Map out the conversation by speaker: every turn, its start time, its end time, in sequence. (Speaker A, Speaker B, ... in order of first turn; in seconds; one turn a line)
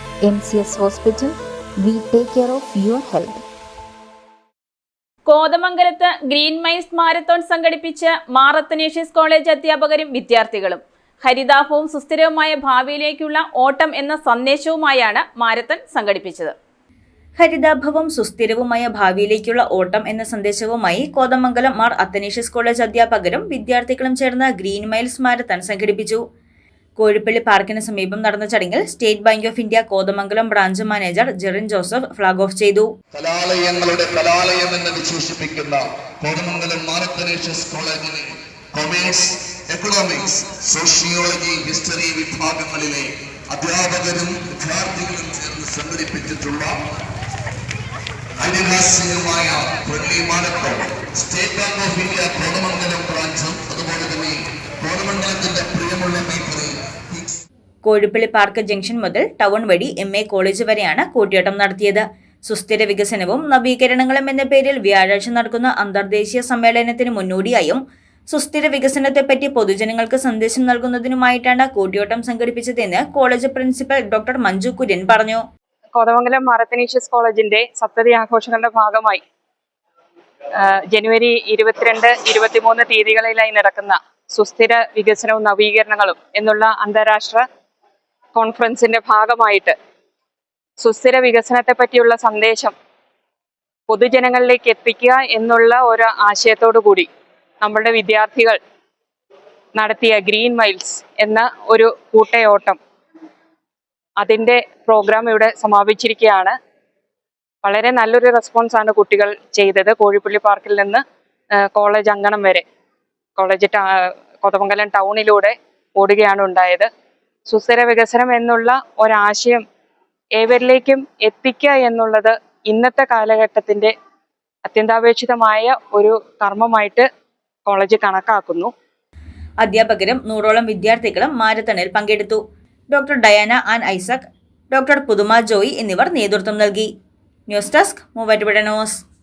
Speaker A: 0.2-3.4
Speaker B: 5.3-16.5
Speaker C: 17.4-26.2
Speaker C: 27.0-32.9
Speaker D: 33.1-46.8
Speaker D: 48.4-57.4
Speaker C: 57.8-67.8
Speaker C: 68.3-75.4
Speaker E: 75.9-79.2
Speaker E: 80.5-87.4
Speaker E: 88.3-89.8
Speaker E: 90.8-92.7
Speaker E: 93.9-97.1
Speaker E: 97.6-98.6
Speaker E: 99.8-102.8
Speaker E: 104.2-106.5
Speaker E: 107.6-111.0
Speaker E: 111.6-112.6
Speaker E: 113.4-116.9
Speaker E: 117.5-119.6
Speaker E: 120.3-123.9
Speaker E: 124.7-127.1
Speaker E: 127.7-128.7
Speaker C: 129.6-132.4
Speaker C: 132.9-136.9
Speaker C: 137.5-139.0